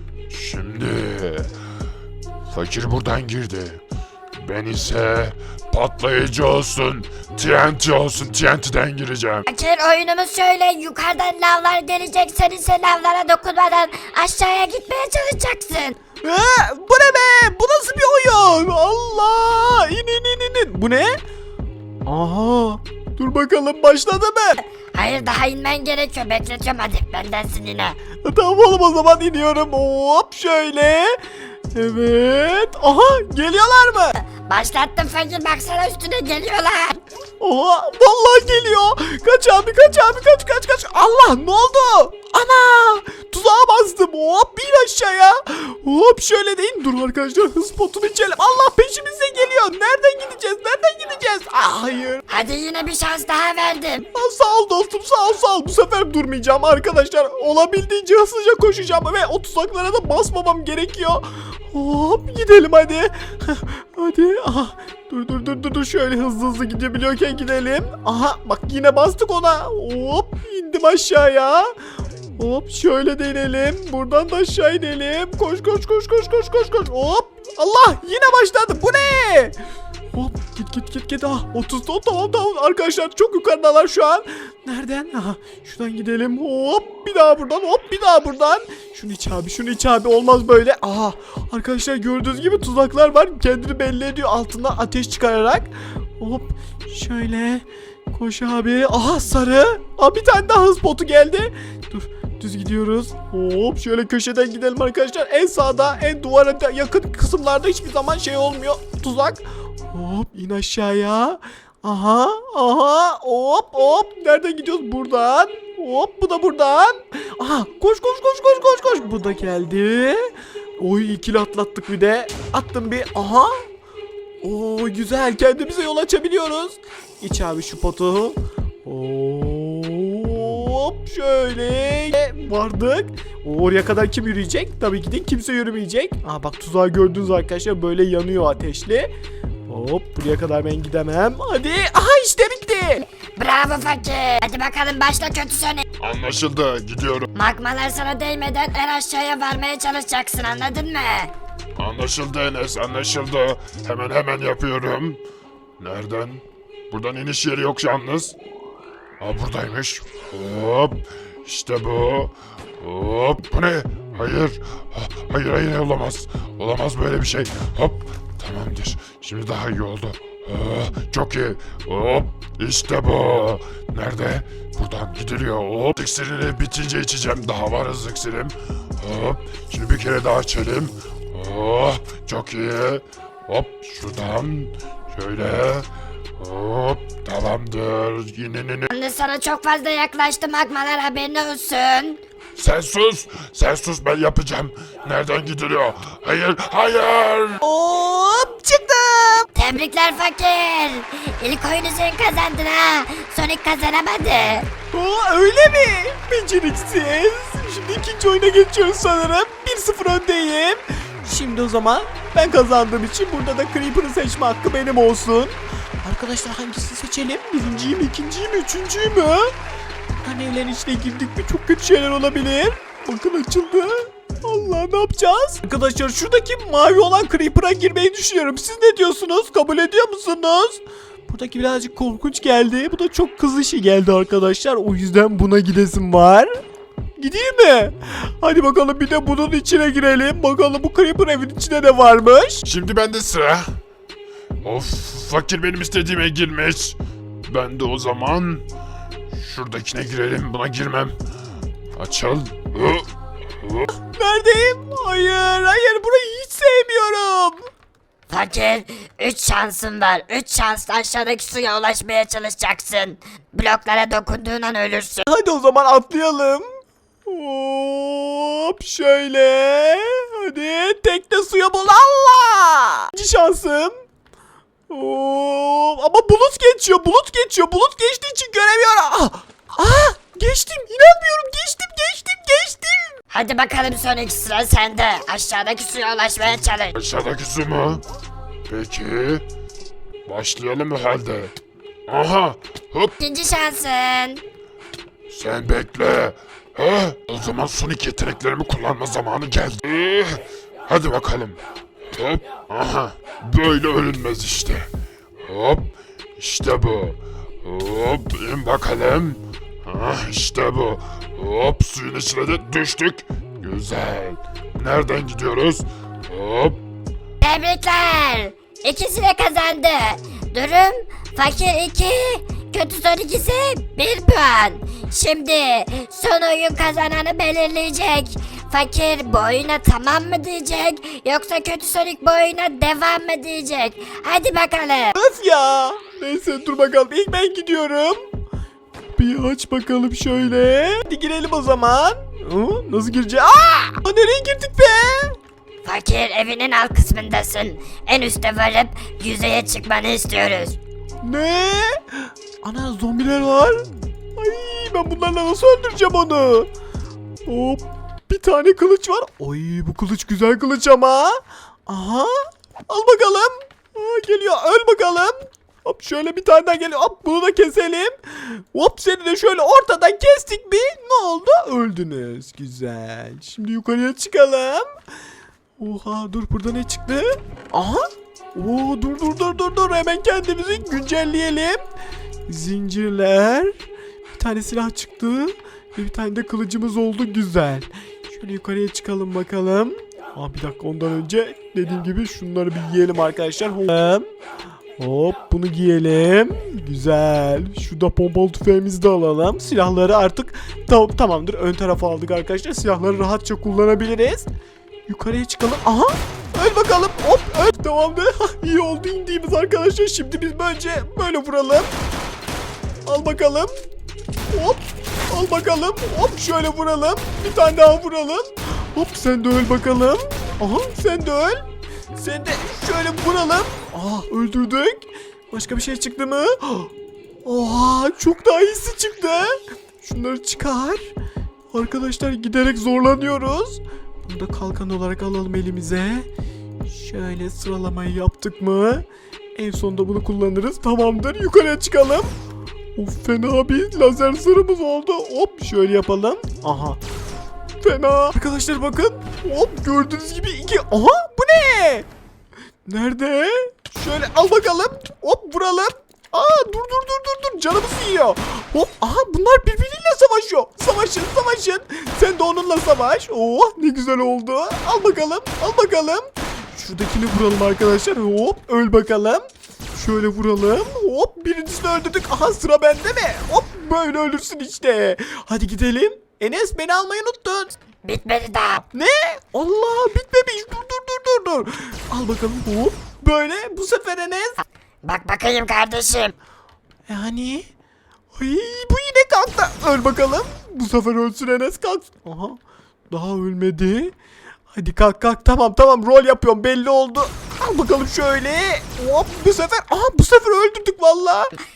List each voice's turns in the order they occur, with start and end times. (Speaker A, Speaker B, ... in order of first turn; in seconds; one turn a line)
Speaker A: 0.3-1.5
Speaker A: 2.5-3.8
Speaker A: 4.4-9.4
Speaker B: 9.5-15.9
Speaker C: 16.2-21.2
Speaker C: 22.1-24.6
Speaker B: 24.9-28.0
Speaker C: 28.2-31.2
Speaker C: 31.7-34.1
Speaker B: 34.5-37.0
Speaker C: 37.4-52.2
Speaker B: 52.3-54.0
Speaker C: 54.1-71.7
Speaker C: 72.4-79.6
Speaker C: 80.1-123.6
Speaker C: 124.4-139.1
Speaker C: 139.7-143.0
Speaker B: 143.3-145.8
Speaker A: 146.0-147.3
Speaker B: 147.3-151.3
Speaker A: 151.8-155.2
Speaker A: 155.8-158.3
Speaker A: 159.2-185.9
Speaker A: 186.4-188.9
Speaker B: 188.9-192.2
Speaker A: 192.6-197.6
Speaker C: 197.6-199.5
Speaker B: 199.5-204.7
Speaker C: 204.9-219.5
Speaker C: 220.2-236.5
Speaker C: 237.2-242.6
Speaker A: 242.6-243.7
Speaker A: 244.6-248.6
Speaker A: 249.3-251.1
Speaker A: 251.9-253.1
Speaker A: 253.6-253.9
Speaker C: 254.1-257.6
Speaker B: 258.3-265.3
Speaker C: 265.3-266.6
Speaker C: 267.2-273.9
Speaker C: 274.9-283.1
Speaker B: 283.3-286.9
Speaker A: 286.9-288.0
Speaker A: 288.7-289.4
Speaker A: 290.3-291.5
Speaker A: 292.1-293.1
Speaker B: 293.2-294.4
Speaker A: 295.3-301.6
Speaker A: 302.1-304.9
Speaker A: 305.4-316.8
Speaker B: 317.4-335.1
Speaker C: 335.1-338.2
Speaker C: 339.1-345.4
Speaker B: 345.8-350.8
Speaker C: 351.2-352.0
Speaker C: 352.6-353.9
Speaker C: 354.4-356.7
Speaker C: 357.4-374.9
Speaker C: 375.8-381.8
Speaker C: 382.5-394.3
Speaker C: 395.0-404.5
Speaker C: 405.1-411.9
Speaker C: 413.1-413.7
Speaker C: 414.5-426.9
Speaker C: 427.4-431.1
Speaker C: 431.7-436.3
Speaker C: 436.9-442.3
Speaker C: 442.9-447.0
Speaker C: 447.8-452.1
Speaker C: 452.9-477.8
Speaker B: 478.0-478.8
Speaker C: 478.9-484.6
Speaker B: 485.0-486.3
Speaker C: 487.1-487.7
Speaker C: 488.3-492.6
Speaker C: 493.1-494.1
Speaker C: 494.7-501.5